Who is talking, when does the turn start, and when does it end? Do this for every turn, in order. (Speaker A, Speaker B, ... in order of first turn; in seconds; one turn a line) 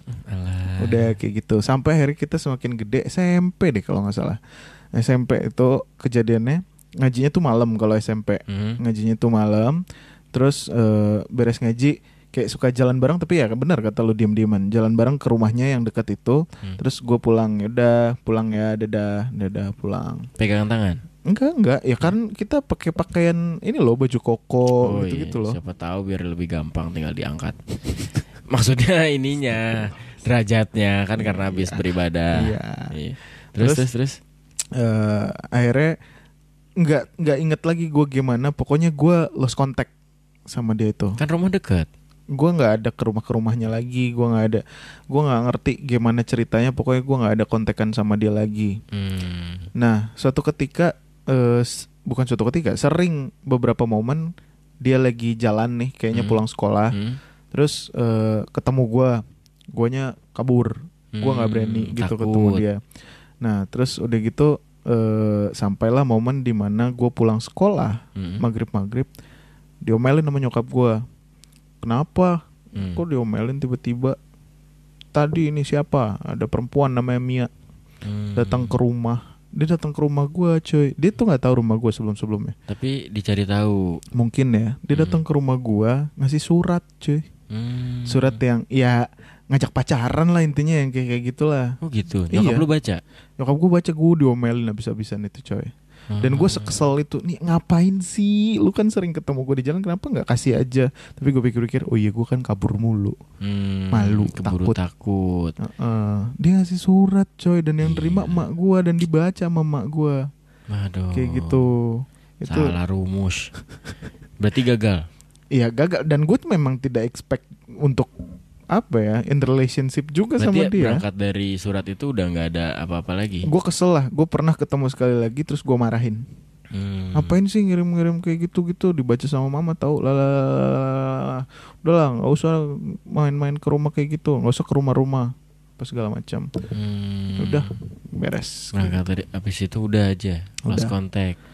Speaker A: 0.1-1.1
Speaker B: 0.8-4.4
Speaker B: 4.9-9.8
Speaker A: 8.5-8.8
Speaker B: 10.3-20.3
Speaker A: 20.4-21.0
Speaker B: 21.3-25.6
Speaker A: 24.8-27.6
Speaker A: 28.5-34.2
Speaker B: 31.2-31.8
Speaker B: 32.4-32.9
Speaker B: 33.6-33.9
Speaker B: 34.7-36.0
Speaker B: 36.8-39.9
Speaker B: 40.5-41.2
Speaker A: 41.2-41.9
Speaker B: 42.3-48.8
Speaker A: 48.9-49.7
Speaker B: 49.8-54.2
Speaker B: 54.8-56.9
Speaker A: 56.1-57.2
Speaker B: 57.5-59.2
Speaker B: 59.7-62.8
Speaker A: 61.1-62.6
Speaker B: 63.4-69.1
Speaker A: 68.2-68.4
Speaker B: 69.8-71.0
Speaker B: 71.8-74.2
Speaker A: 72.8-73.0
Speaker B: 75.1-77.5
Speaker A: 78.0-78.7
Speaker B: 78.3-82.5
Speaker A: 82.7-84.0
Speaker B: 84.2-87.2
Speaker A: 84.9-85.2
Speaker A: 87.5-88.4
Speaker B: 88.1-91.7
Speaker A: 91.8-93.0
Speaker B: 92.3-92.6
Speaker B: 93.4-103.1
Speaker A: 96.1-96.8
Speaker A: 103.4-105.5
Speaker B: 103.9-104.8
Speaker B: 105.6-110.2
Speaker A: 107.8-108.4
Speaker A: 110.7-111.7
Speaker B: 111.1-112.7
Speaker A: 112.5-113.5
Speaker A: 114.4-115.0
Speaker B: 115.5-118.1
Speaker B: 118.7-121.0
Speaker A: 120.4-123.5
Speaker B: 123.4-126.2
Speaker A: 126.7-127.3
Speaker B: 127.1-136.5
Speaker A: 136.7-137.6
Speaker B: 137.4-138.9
Speaker A: 138.7-141.4
Speaker B: 140.7-140.9